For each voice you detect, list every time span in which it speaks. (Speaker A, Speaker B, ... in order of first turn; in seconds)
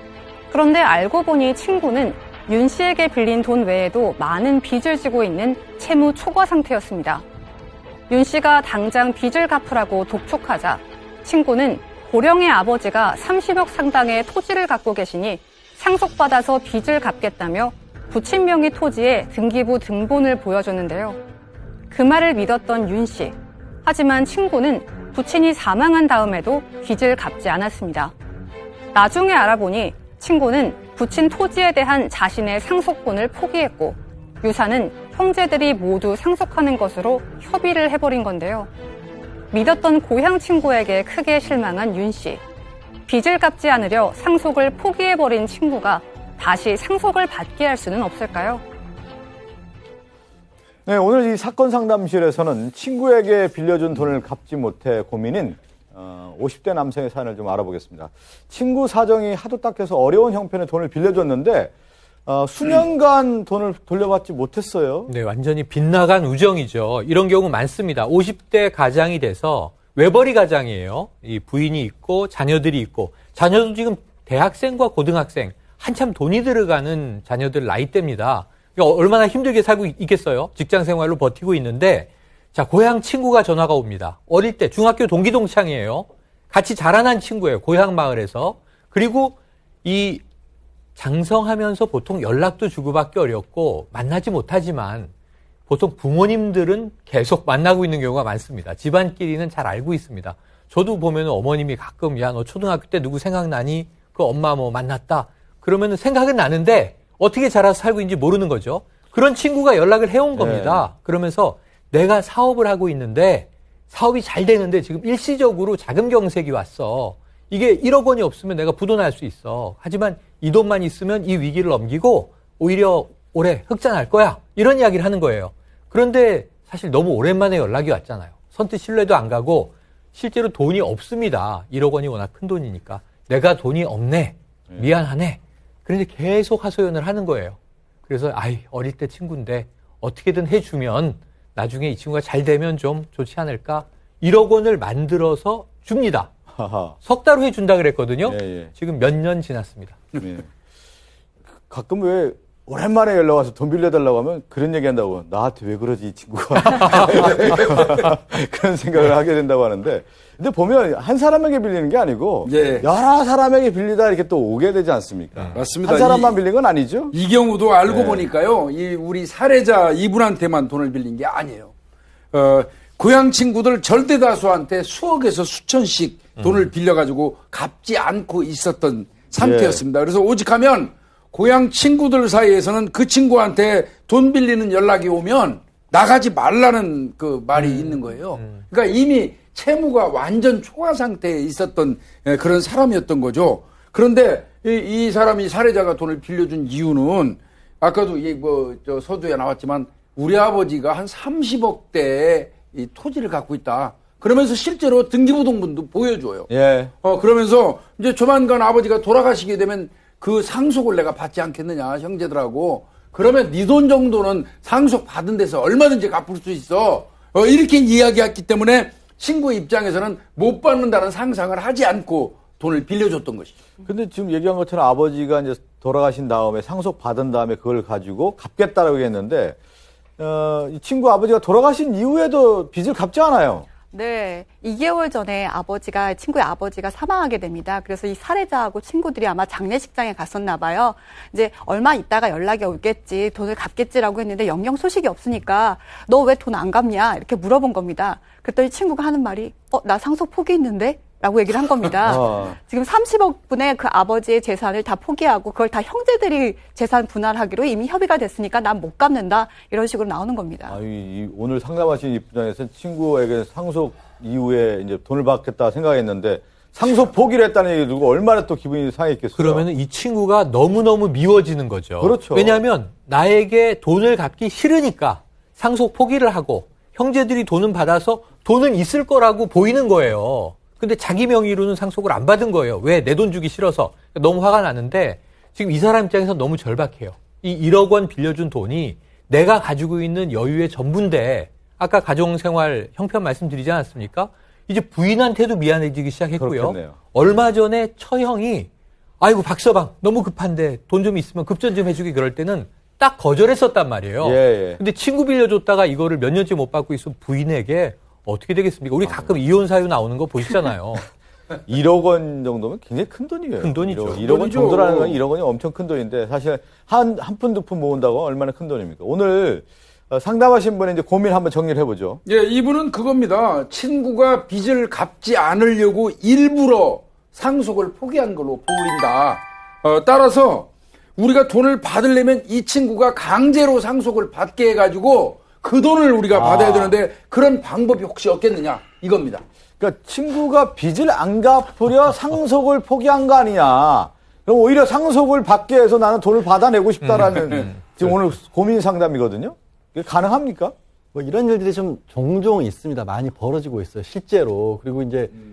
Speaker A: 0.5-7.2, 8.1-21.2, 21.9-28.1, 28.9-38.7, 39.5-42.4, 43.1-48.6
Speaker B: 50.9-61.7, 62.3-65.1, 110.3-110.9, 146.5-147.0, 148.3-148.7, 150.2-150.5, 151.7-167.1, 167.9-168.3, 179.4-179.8, 206.5-206.9, 223.8-229.6, 230.2-233.7, 252.1-252.6, 260.7-269.6, 272.0-272.6, 296.4-297.0, 304.2-304.8, 309.1-309.4, 311.7-322.2, 336.3-337.0, 339.8-350.7
Speaker C: 65.1-90.2, 91.0-95.1, 95.7-146.3, 147.0-150.1, 269.4-311.1, 313.6-314.3
Speaker D: 157.2-157.8, 162.5-162.9, 165.5-166.4, 167.1-171.7, 172.3-206.5, 207.0-223.5, 314.2-315.2, 322.3-339.4, 347.3-347.7
Speaker E: 233.9-260.8
Speaker F: 351.1-355.3